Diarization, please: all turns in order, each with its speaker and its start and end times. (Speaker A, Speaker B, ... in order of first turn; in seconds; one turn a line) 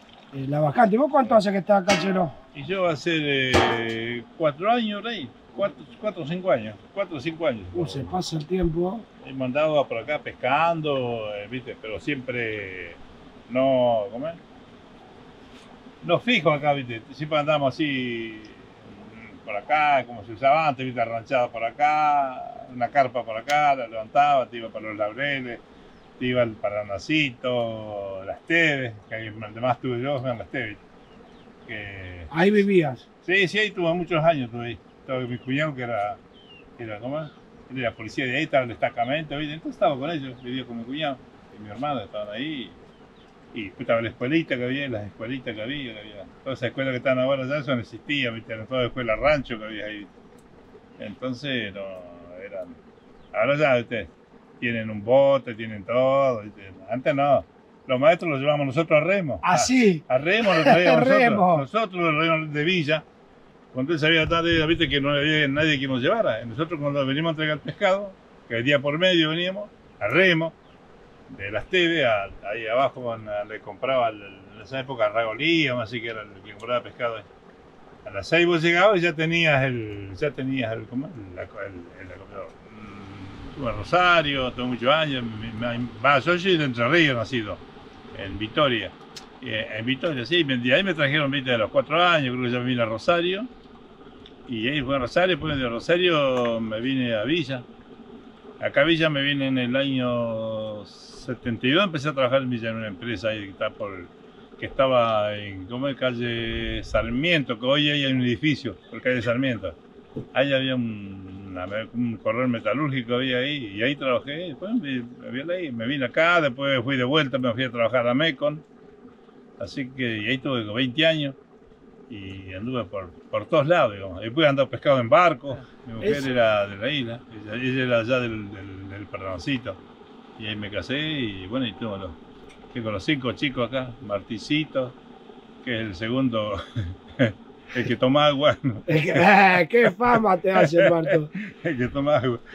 Speaker A: 0.3-2.3
Speaker B: 2.5-8.1
Speaker A: 7.7-9.0
Speaker B: 9.2-14.4
Speaker B: 16.0-25.6
Speaker B: 26.2-30.8
Speaker B: 31.7-32.3
Speaker A: 32.3-33.0
Speaker B: 33.2-36.2
Speaker B: 36.8-42.8
Speaker B: 43.5-50.1
Speaker B: 51.0-52.8
Speaker B: 53.3-63.0
Speaker A: 59.4-61.6
Speaker B: 63.7-70.5
Speaker B: 71.3-77.2
Speaker B: 78.0-87.6
Speaker B: 88.1-93.5
Speaker B: 94.5-97.6
Speaker B: 98.6-109.8
Speaker B: 110.3-118.6
Speaker B: 119.6-121.3
Speaker B: 122.1-129.8
Speaker A: 126.0-126.3
Speaker B: 130.4-132.2
Speaker B: 132.7-134.9
Speaker B: 135.6-142.4
Speaker A: 138.9-141.3